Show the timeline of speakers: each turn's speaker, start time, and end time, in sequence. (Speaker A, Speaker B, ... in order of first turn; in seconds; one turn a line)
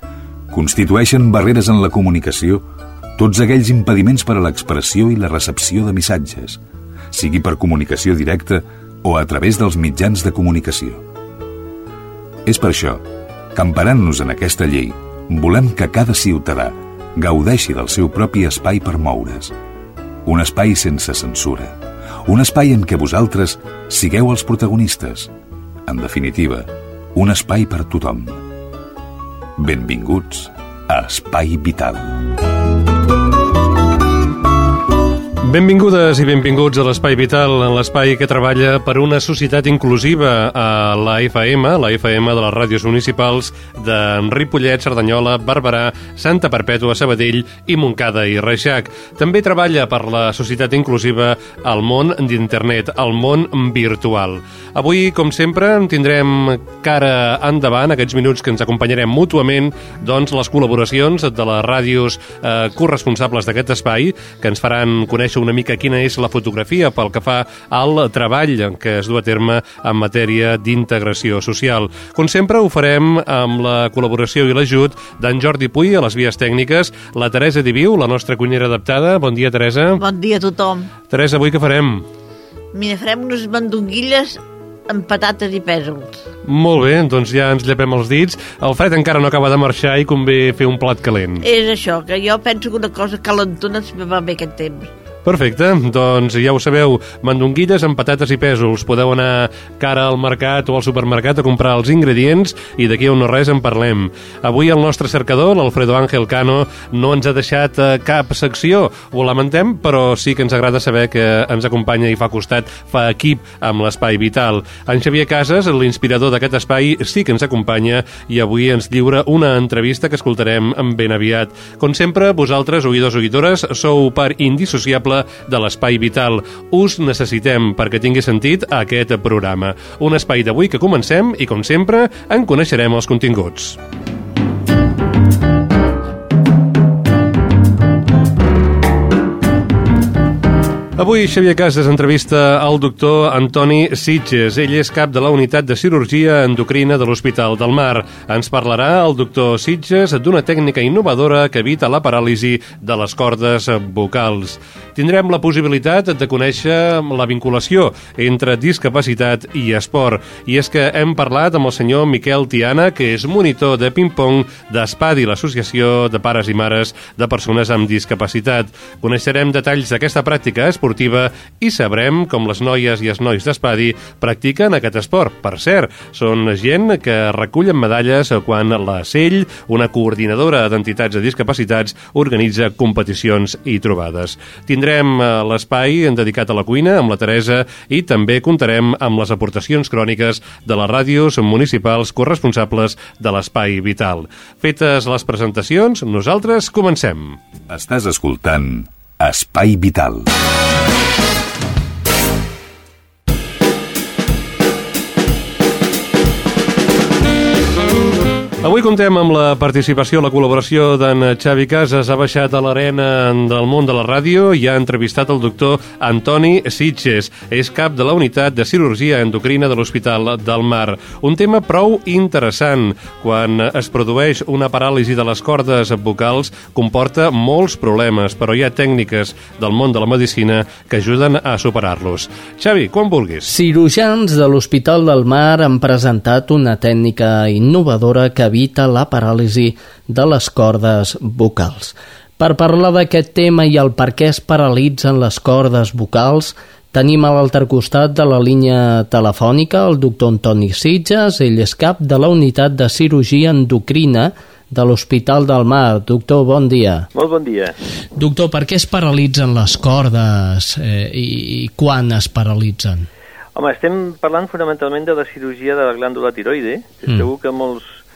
Speaker A: 0.5-2.6
Speaker A: 3.2-6.6
Speaker A: 7.1-11.0
Speaker A: 12.4-19.5
Speaker A: 20.2-21.7
Speaker A: 22.2-25.3
Speaker A: 25.9-28.4
Speaker A: 29.6-32.2
Speaker B: 35.4-80.0
Speaker C: 80.0-80.9
Speaker B: 81.1-82.0
Speaker C: 82.7-86.2
Speaker B: 86.5-91.4
Speaker C: 91.4-94.9
Speaker B: 95.2-133.8
Speaker B: 141.0-197.4
Speaker A: 197.7-200.3
Speaker B: 208.6-233.5
Speaker D: 233.4-257.1
Speaker E: 257.1-257.7
Speaker D: 258.1-263.1
Speaker E: 263.5-268.0